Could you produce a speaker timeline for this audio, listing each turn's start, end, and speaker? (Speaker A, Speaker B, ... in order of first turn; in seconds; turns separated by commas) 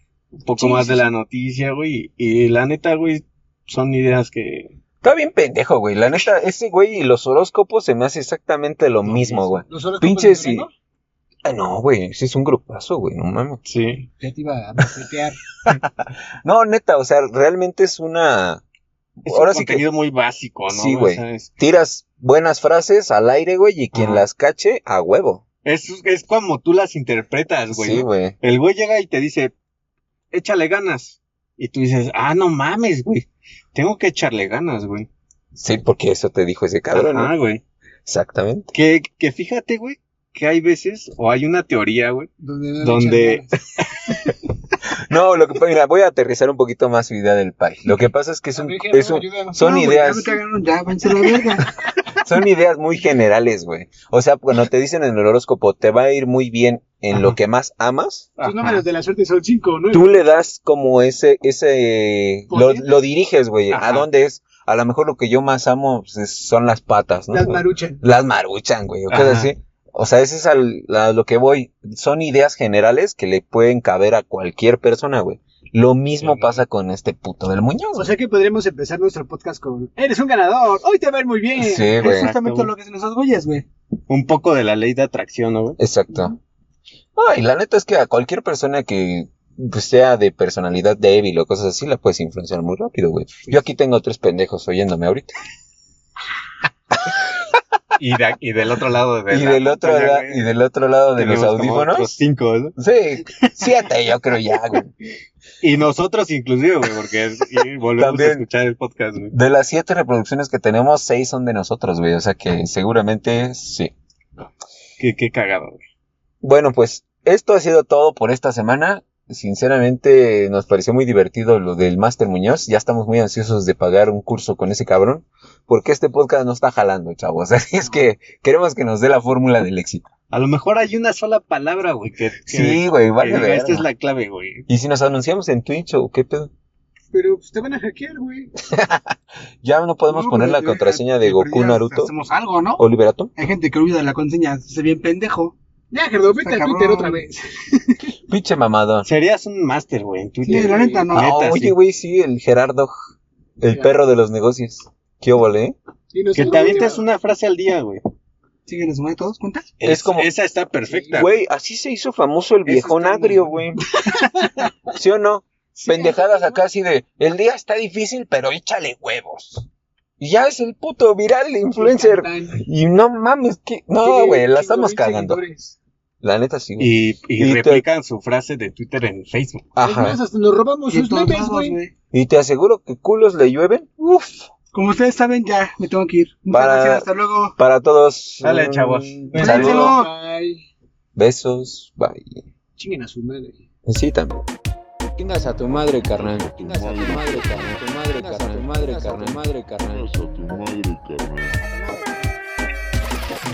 Speaker A: 0.4-4.7, Speaker B: 0.6-1.1, Speaker C: 5.0-10.7, Speaker A: 9.1-9.5, Speaker B: 9.6-10.7, Speaker C: 11.4-13.6, Speaker A: 13.6-14.1, Speaker B: 14.2-15.4, Speaker C: 15.7-18.6, Speaker A: 19.2-21.5, Speaker C: 19.2-19.8, Speaker C: 20.7-25.4, Speaker A: 23.9-24.2, Speaker A: 25.6-29.5, Speaker C: 27.7-28.3, Speaker A: 30.3-35.1, Speaker C: 35.5-37.3, Speaker A: 36.9-37.6, Speaker C: 38.0-38.7, Speaker A: 38.7-42.3, Speaker B: 42.4-43.5, Speaker A: 42.8-44.2, Speaker C: 44.9-50.4, Speaker B: 48.5-49.7, Speaker D: 49.6-51.7, Speaker C: 52.1-58.3, Speaker A: 57.1-57.4, Speaker A: 58.4-58.8, Speaker B: 58.4-60.1, Speaker C: 59.9-78.1, Speaker B: 62.5-62.9, Speaker A: 63.7-64.0, Speaker B: 67.3-68.0, Speaker A: 69.1-69.5, Speaker A: 76.2-76.6, Speaker B: 77.9-82.0, Speaker C: 81.6-82.3, Speaker D: 82.0-83.6, Speaker A: 82.0-82.7, Speaker A: 84.1-85.8, Speaker C: 85.8-86.4, Speaker C: 87.2-95.3, Speaker A: 98.0-100.5, Speaker C: 99.3-102.2, Speaker A: 101.2-102.7, Speaker C: 102.8-104.9, Speaker A: 103.4-103.7, Speaker A: 105.6-109.3, Speaker C: 108.0-108.4, Speaker C: 109.3-113.9, Speaker A: 115.0-115.8, Speaker C: 116.4-130.1, Speaker A: 130.3-134.7, Speaker C: 132.4-133.8, Speaker C: 134.7-136.5, Speaker B: 137.1-138.5, Speaker C: 138.7-142.1, Speaker D: 140.1-142.8, Speaker C: 142.8-143.3, Speaker D: 143.3-145.5, Speaker B: 145.9-148.1, Speaker D: 146.4-147.2, Speaker C: 148.3-149.1, Speaker A: 149.0-151.8, Speaker B: 150.5-151.1, Speaker D: 150.5-151.3, Speaker C: 151.1-152.9, Speaker C: 153.6-155.7, Speaker B: 153.7-153.9, Speaker B: 156.1-157.0, Speaker A: 156.3-158.0, Speaker D: 158.7-159.7, Speaker A: 159.8-161.4, Speaker C: 159.8-160.3, Speaker B: 160.9-161.2, Speaker C: 161.1-163.8, Speaker B: 162.7-164.7, Speaker C: 164.9-169.7, Speaker B: 165.8-166.6, Speaker C: 170.2-175.4, Speaker B: 171.7-172.6, Speaker B: 174.0-175.8, Speaker C: 176.2-177.8, Speaker A: 176.8-179.7, Speaker C: 179.8-180.2, Speaker B: 179.8-181.8, Speaker D: 180.9-181.9, Speaker C: 182.1-184.5, Speaker D: 184.7-187.6, Speaker C: 186.5-187.1, Speaker C: 187.6-190.0, Speaker A: 188.4-189.9, Speaker D: 189.4-190.1, Speaker B: 189.4-190.6, Speaker C: 191.2-192.4, Speaker B: 192.8-193.6, Speaker C: 193.8-194.4, Speaker C: 195.2-200.1, Speaker E: 195.6-197.8, Speaker B: 197.0-199.4, Speaker E: 199.8-201.7, Speaker B: 201.6-202.3